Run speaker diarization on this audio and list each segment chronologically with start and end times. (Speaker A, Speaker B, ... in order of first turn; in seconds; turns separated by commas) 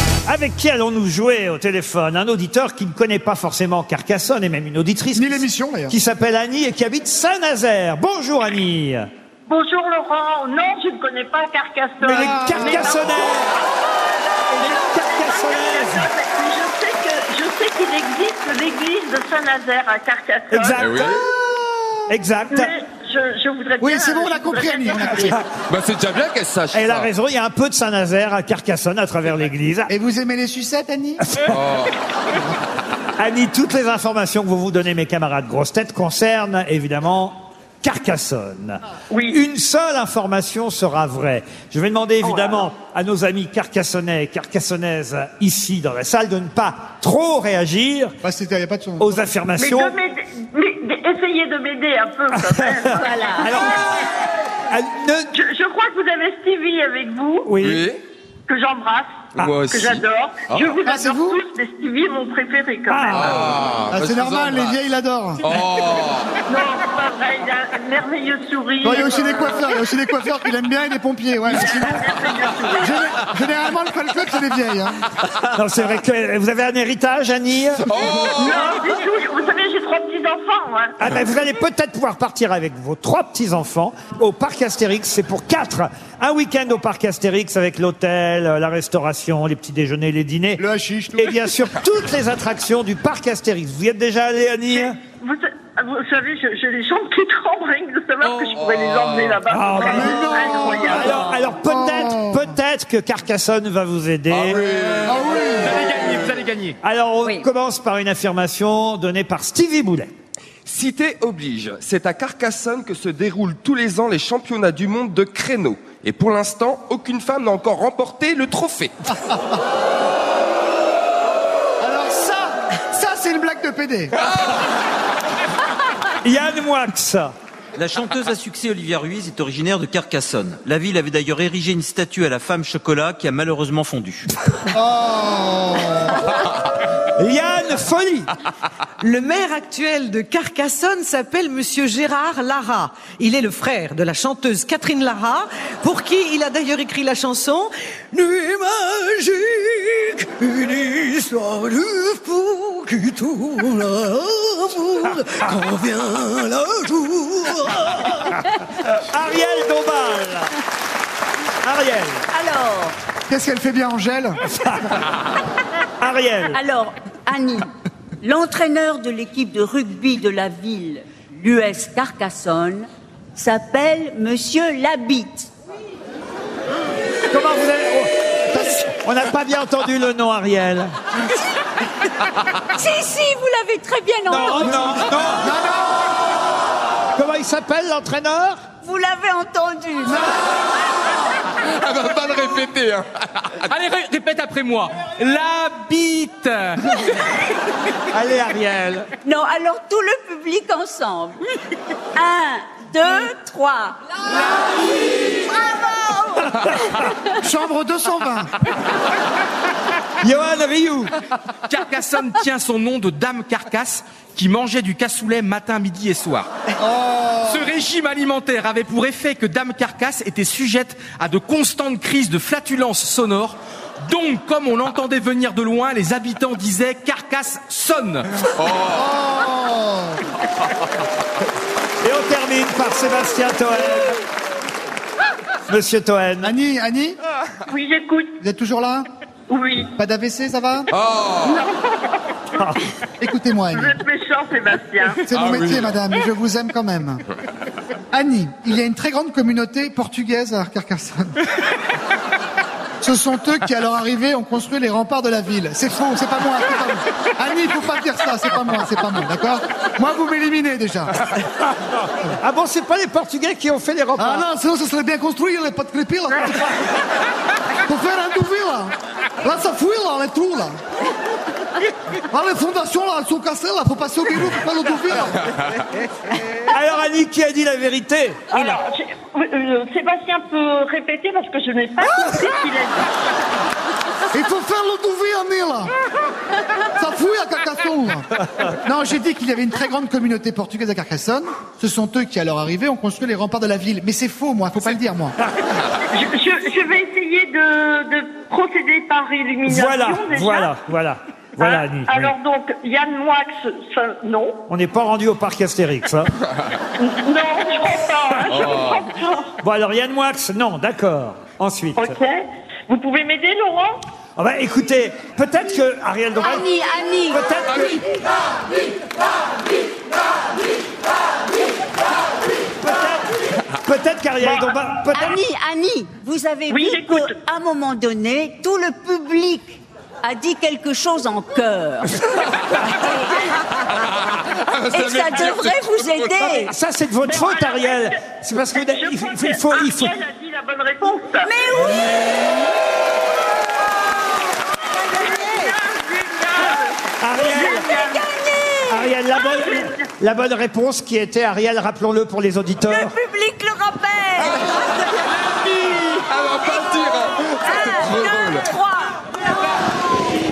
Speaker A: 0.3-9.1, Speaker B: 5.2-6.0, Speaker C: 9.5-20.8, Speaker A: 12.0-13.5, Speaker B: 12.1-13.0, Speaker A: 14.5-16.1, Speaker A: 20.5-21.2, Speaker D: 20.7-21.2, Speaker A: 22.1-22.7, Speaker C: 22.5-25.4, Speaker B: 23.8-25.4, Speaker D: 25.6-27.1, Speaker A: 26.7-29.9, Speaker B: 29.9-31.5, Speaker A: 31.3-31.5, Speaker D: 31.5-31.9, Speaker B: 32.3-32.6, Speaker A: 33.2-48.2, Speaker C: 39.1-39.4, Speaker B: 48.2-49.2, Speaker A: 49.0-50.0, Speaker C: 49.6-53.0, Speaker A: 52.3-53.8, Speaker E: 52.9-53.8, Speaker A: 54.7-55.3, Speaker C: 55.4-57.5, Speaker A: 57.5-57.9, Speaker D: 57.6-58.0, Speaker C: 58.5-63.1, Speaker D: 59.4-60.8, Speaker B: 60.9-61.4, Speaker A: 62.9-63.6, Speaker D: 63.1-64.8, Speaker B: 63.9-65.6, Speaker D: 65.4-66.3, Speaker C: 66.5-69.5, Speaker B: 68.8-72.2, Speaker C: 71.6-73.0, Speaker B: 72.8-75.0, Speaker A: 75.3-77.9, Speaker D: 77.9-78.8, Speaker C: 78.4-81.0, Speaker A: 81.0-90.6, Speaker B: 90.6-91.3, Speaker A: 91.2-95.0, Speaker C: 95.2-101.1, Speaker D: 98.3-99.2, Speaker A: 99.5-104.8, Speaker B: 99.8-102.5, Speaker D: 104.5-105.2, Speaker F: 105.0-106.8, Speaker B: 105.1-105.8, Speaker A: 106.8-110.1, Speaker D: 110.7-118.9, Speaker B: 121.8-124.1, Speaker A: 126.2-127.3, Speaker G: 127.8-134.3, Speaker B: 134.7-136.2, Speaker A: 137.2-138.3, Speaker H: 139.0-158.4, Speaker A: 158.8-160.5, Speaker A: 161.6-162.2, Speaker E: 162.3-163.0, Speaker B: 163.3-164.5, Speaker A: 166.0-166.6, Speaker E: 166.5-167.7, Speaker E: 168.2-175.5, Speaker A: 177.3-180.9, Speaker B: 178.5-178.8, Speaker E: 182.7-185.1, Speaker A: 184.3-185.5, Speaker B: 185.4-186.1, Speaker A: 187.2-188.6, Speaker E: 188.8-190.4, Speaker D: 191.5-193.5, Speaker F: 193.7-196.9, Speaker A: 198.1-199.1, Speaker E: 199.2-201.4, Speaker E: 202.2-204.0, Speaker E: 205.4-207.0, Speaker B: 207.4-208.6, Speaker A: 210.2-211.1, Speaker F: 211.7-216.5, Speaker B: 216.8-217.7, Speaker F: 217.4-228.3, Speaker D: 228.6-229.1, Speaker B: 228.9-230.2, Speaker A: 232.0-234.2, Speaker A: 235.7-236.6, Speaker B: 236.4-237.2, Speaker C: 237.7-238.3, Speaker B: 238.4-239.1, Speaker C: 239.5-239.9, Speaker B: 239.9-240.9, Speaker D: 240.9-241.6, Speaker C: 241.4-242.2, Speaker B: 243.2-244.0, Speaker C: 243.7-245.2, Speaker B: 245.2-247.2, Speaker D: 245.3-246.0, Speaker B: 248.1-251.4, Speaker B: 253.0-261.2, Speaker A: 261.7-264.5, Speaker B: 264.2-266.8, Speaker B: 267.9-270.8, Speaker B: 272.3-275.5, Speaker A: 276.7-278.8, Speaker C: 278.5-283.4, Speaker B: 284.3-285.9, Speaker B: 287.0-295.4, Speaker C: 296.1-300.7, Speaker A: 299.7-302.3, Speaker C: 301.6-304.6, Speaker A: 304.7-306.3, Speaker C: 307.0-309.5, Speaker D: 308.7-309.0, Speaker A: 309.6-312.2, Speaker C: 312.0-314.0, Speaker A: 314.4-316.7, Speaker E: 316.4-317.4, Speaker A: 317.3-318.0, Speaker A: 322.8-325.4, Speaker E: 325.1-332.2, Speaker C: 326.7-327.3, Speaker E: 332.9-333.4, Speaker E: 334.9-336.7, Speaker D: 334.9-335.8, Speaker A: 336.4-340.1, Speaker C: 337.2-337.9, Speaker C: 338.9-341.5, Speaker E: 341.4-342.6, Speaker E: 345.1-345.7, Speaker C: 345.1-348.2, Speaker A: 347.2-347.8, Speaker E: 347.4-349.1, Speaker A: 348.9-353.2, Speaker C: 349.6-350.0, Speaker E: 352.9-355.2, Speaker D: 355.6-358.6, Speaker E: 356.4-359.2